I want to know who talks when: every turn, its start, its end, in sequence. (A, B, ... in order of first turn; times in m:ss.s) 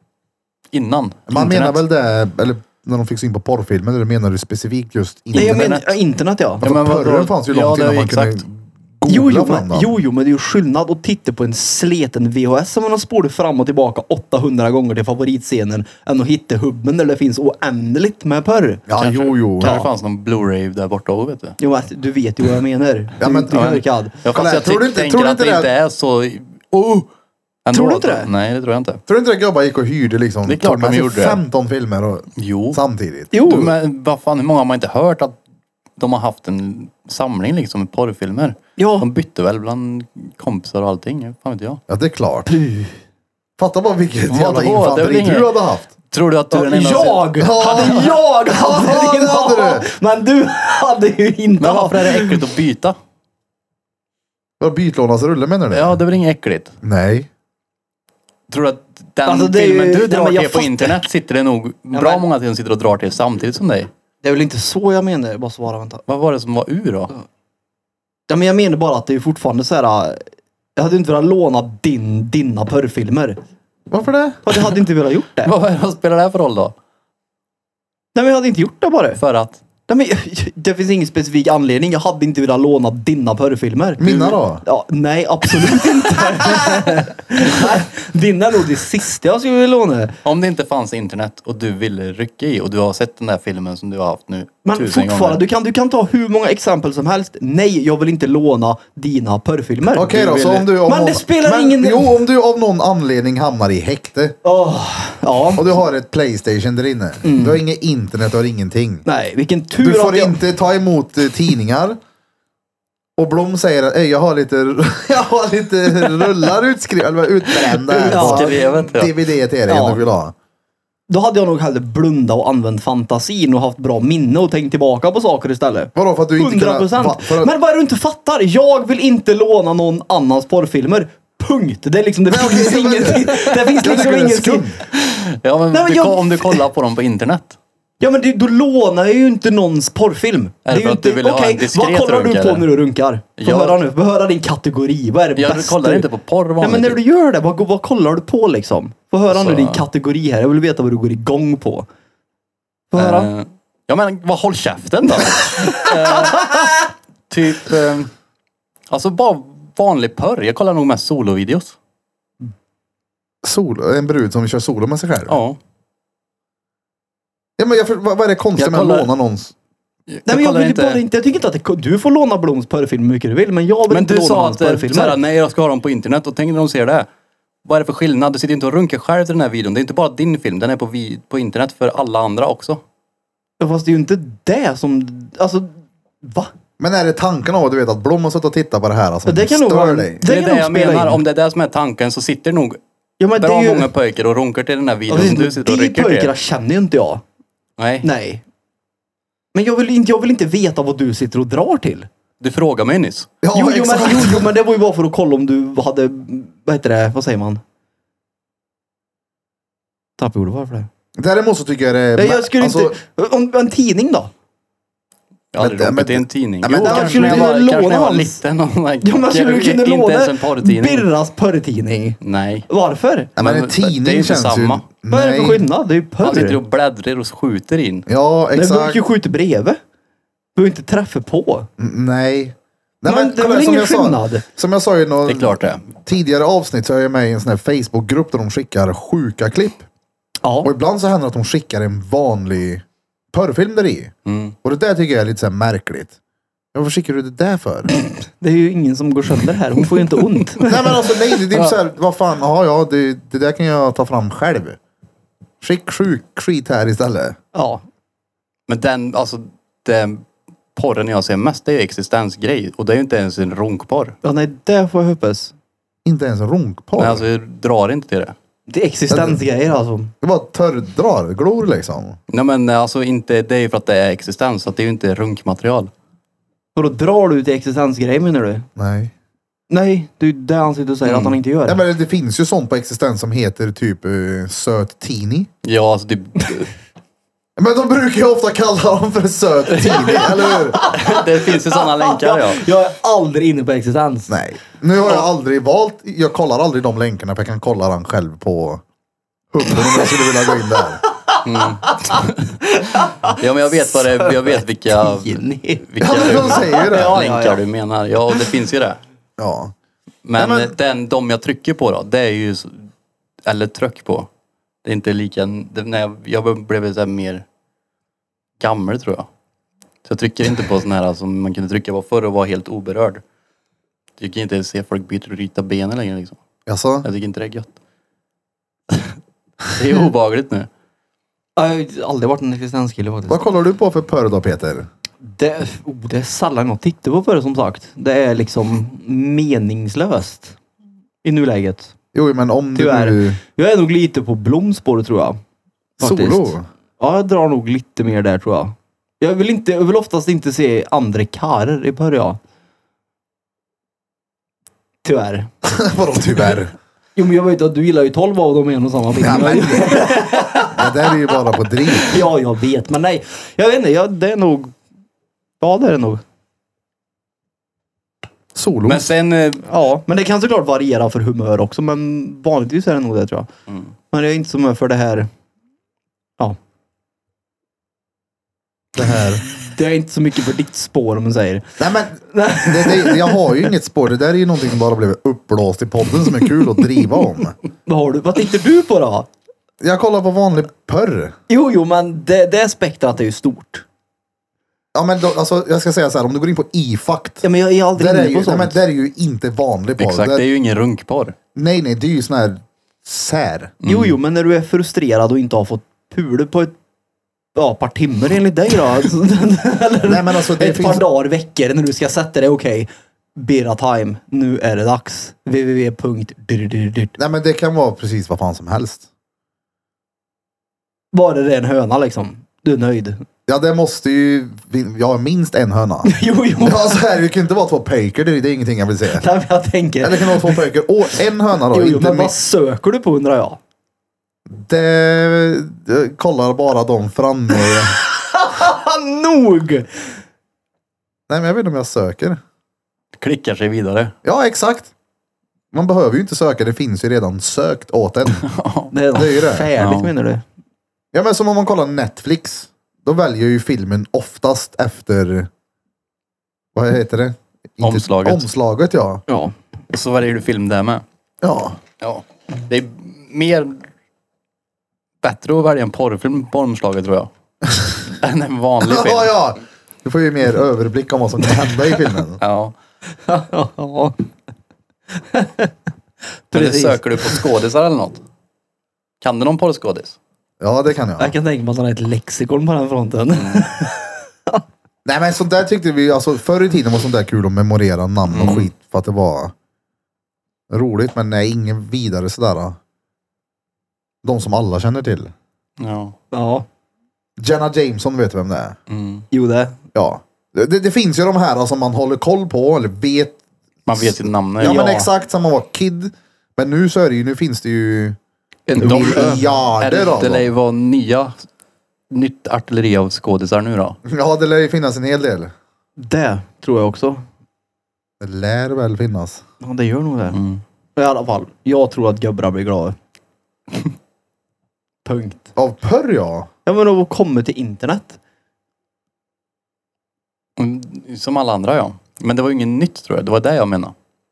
0:00.7-0:01.8 A
0:01.3-0:05.8 B
0:05.3-0:06.0 A
0:05.4-0:06.6 C
0:06.6-0:08.4 A
0:06.6-0:09.9 B
0:09.1-0:18.8 C
0:18.9-0:19.9 B
0:19.0-0:21.6 A
0:21.6-0:24.2 C
0:23.2-0:23.6 B
0:23.5-0:27.1 A
0:24.3-0:25.7 B
0:27.6-0:29.0 A
0:27.7-0:28.3 C
0:29.1-0:33.3 B
0:30.4-0:31.4 A
0:32.4-0:32.8 A
0:33.3-0:33.7 C
0:33.4-0:35.4 A
0:36.0-0:41.8 A
0:38.8-0:39.1 C
0:41.9-0:42.5 B
0:42.5-0:43.0 C
0:43.6-0:45.9 B
0:44.3-0:45.6 A
0:46.1-0:47.3 A
0:46.5-0:52.4 C
0:47.4-0:49.8 B
0:51.6-0:53.0 A
0:54.6-0:56.0 B
0:55.7-0:56.7 A
0:56.8-0:57.3 B
0:58.5-1:03.9 A
0:59.2-1:01.0 C
1:01.9-1:02.2 C
1:04.2-1:06.0 C
1:06.1-1:07.1 A
1:08.3-1:13.4 C
1:13.9-1:14.4 B
1:14.4-1:15.5 C
1:15.4-1:16.7 A
1:18.2-1:19.2 C
1:19.2-1:19.6 A
1:19.9-1:24.1 C
1:24.0-1:24.6 B
1:24.0-1:24.4 A
1:24.6-1:30.2 C
1:30.2-1:35.4 A
1:34.6-1:40.1 C
1:40.0-1:44.4 B
1:40.0-1:40.7 A
1:40.8-1:42.2 C
1:44.4-1:45.8 C
1:45.6-1:49.0 B
1:47.2-1:47.6 C
1:49.0-1:50.4 C
1:49.8-1:52.0 B
1:53.2-2:00.3 B
1:57.9-1:58.8 C
1:58.0-1:59.2 A
1:59.7-2:00.0 C
2:01.1-2:14.8 C
2:06.0-2:07.5 B
2:12.3-2:14.8 B
2:14.9-2:17.6 A
2:15.7-2:16.6 C
2:18.0-2:26.1 C
2:20.6-2:22.7 A
2:23.4-2:23.8 A
2:25.4-2:27.0 A
2:26.6-2:31.9 C
2:29.3-2:29.9 A
2:32.9-2:33.3 C
2:33.0-2:38.1 A
2:38.9-2:41.8 A
2:43.4-2:45.4 B
2:45.3-2:45.6 A
2:47.6-2:49.5 B
2:48.6-2:49.1 A
2:50.1-2:51.0 A
2:50.3-2:55.2 C
2:53.9-2:57.1 A
2:57.6-3:02.8 A
3:03.6-3:06.5 C
3:06.8-3:10.2 B
3:09.3-3:11.2 C
3:10.2-3:12.8 A
3:13.2-3:13.9 C
3:13.4-3:16.3 A
3:15.1-3:17.2 C
3:17.8-3:18.1 A
3:18.0-3:18.4 C
3:19.5-3:22.1 C
3:22.4-3:23.3 A
3:23.4-3:24.5 B
3:23.5-3:27.6 C
3:30.2-3:30.9 C
3:31.2-3:33.0 B
3:32.2-3:34.3 C
3:35.5-3:41.1 A
3:35.6-3:37.5 B
3:36.8-3:38.4 C
3:39.0-3:43.3 C
3:42.2-3:42.7 A
3:43.4-3:45.6 B
3:43.4-3:44.8 A
3:45.1-3:46.6 C
3:46.2-3:48.1 A
3:48.1-3:49.0 B
3:48.6-3:49.8 C
3:50.6-3:51.7 C
3:51.8-3:59.9 B
3:53.0-3:54.4 C
3:55.2-3:55.9 A
4:00.4-4:00.7 C
4:00.6-4:04.1 B
4:04.2-4:04.6 A
4:04.6-4:06.2 B
4:06.7-4:07.9 B
4:08.0-4:11.1 C
4:10.6-4:14.8 B
4:15.6-4:17.4 B
4:17.5-4:17.8 C
4:18.7-4:24.2 A
4:24.2-4:25.5 C
4:26.0-4:27.2 B
4:27.0-4:28.4 A
4:28.7-4:30.1 C
4:29.1-4:29.4 B
4:30.2-4:32.2 B
4:32.3-4:35.9 A
4:36.8-4:38.7 C
4:38.8-4:39.1 B
4:39.7-4:41.8 C
4:41.0-4:41.4 A
4:41.7-4:45.5 B
4:45.6-4:46.7 A
4:47.6-4:50.8 B
4:50.1-4:54.3 C
4:50.9-4:52.6 A
4:54.3-4:58.8 B
4:59.5-5:01.0 B
5:01.2-5:07.6 C
5:01.4-5:02.4 A
5:03.2-5:09.0 A
5:06.0-5:07.2 B
5:09.4-5:09.7 B
5:10.2-5:12.9 A
5:10.4-5:10.7 B
5:13.4-5:14.3 A
5:14.8-5:17.4 A
5:18.6-5:19.3 A
5:20.0-5:23.2 A
5:24.2-5:26.4 A
5:26.7-5:27.1 B
5:27.0-5:27.7 A
5:29.7-5:30.7 A
5:31.6-5:33.4 C
5:33.3-5:34.9 B
5:35.3-5:40.6 C
5:41.2-5:41.9 C
5:42.1-5:43.4 B
5:42.8-5:45.4 C
5:46.0-5:46.7 B
5:46.0-5:52.4 C
5:55.0-5:55.5 C
5:55.6-5:56.7 B
5:57.2-6:01.1 C
5:59.2-6:02.2 B
6:01.9-6:04.7 C
6:05.6-6:06.2 C
6:08.6-6:09.1 B
6:08.9-6:09.6 A
6:09.7-6:13.5 C
6:14.1-6:15.3 C
6:19.0-6:19.4 B
6:19.4-6:21.7 C
6:21.8-6:27.6 B
6:22.3-6:23.6 C
6:27.9-6:29.3 C
6:29.8-6:31.4 B
6:31.5-6:33.8 C
6:34.9-6:37.4 B
6:37.4-6:38.8 C
6:38.0-6:40.4 B
6:40.0-6:41.4 A
6:41.6-6:43.7 B
6:43.8-6:44.2 A
6:43.8-6:46.8 C
6:47.6-6:57.2 C
6:50.1-6:51.0 B
6:57.2-6:59.1 B
7:01.1-7:03.2 C
7:03.5-7:09.2 B
7:06.0-7:07.0 C
7:09.1-7:10.7 C
7:10.0-7:12.4 B
7:11.6-7:13.6 C
7:14.5-7:18.0 B
7:18.3-7:20.2 C
7:21.3-7:22.4 B
7:23.2-7:24.1 A
7:24.2-7:24.9 B
7:25.7-7:28.4 B
7:28.4-7:28.9 A
7:28.9-7:30.4 C
7:29.1-7:29.7 B
7:29.8-7:30.1 A
7:31.1-7:35.5 B
7:36.8-7:39.2 B
7:37.8-7:38.5 A
7:39.3-7:39.5 C
7:39.9-7:41.0 A
7:41.4-7:41.8 B
7:42.0-7:43.8 A
7:45.2-7:47.3 A
7:48.1-7:49.3 A
7:48.8-7:52.4 B
7:52.4-7:52.7 A
7:53.2-7:54.2 C
7:55.3-7:55.7 C
7:56.5-7:57.4 C
7:56.5-7:58.2 A
7:59.2-8:00.2 A
8:00.6-8:01.3 B
8:01.2-8:04.6 C
8:03.4-8:03.6 A
8:05.0-8:09.5 B
8:08.3-8:08.7 A
8:10.7-8:12.8 B
8:14.2-8:15.3 B
8:15.8-8:16.2 A
8:16.3-8:16.7 C
8:17.4-8:18.8 B
8:18.9-8:19.2 A
8:19.3-8:19.8 C
8:20.0-8:23.4 B
8:23.9-8:24.8 A
8:24.0-8:28.2 B
8:24.6-8:25.1 C
8:28.7-8:29.4 C
8:28.8-8:31.3 A
8:28.8-8:30.5 B
8:32.1-8:34.0 A
8:34.1-8:35.5 B
8:36.0-8:37.2 C
8:38.2-8:39.4 B
8:39.6-8:40.4 C
8:40.3-8:40.6 A
8:41.0-8:43.0 C
8:45.0-8:45.5 C
8:45.6-8:46.5 B
8:46.7-8:48.2 C
8:50.6-8:53.9 A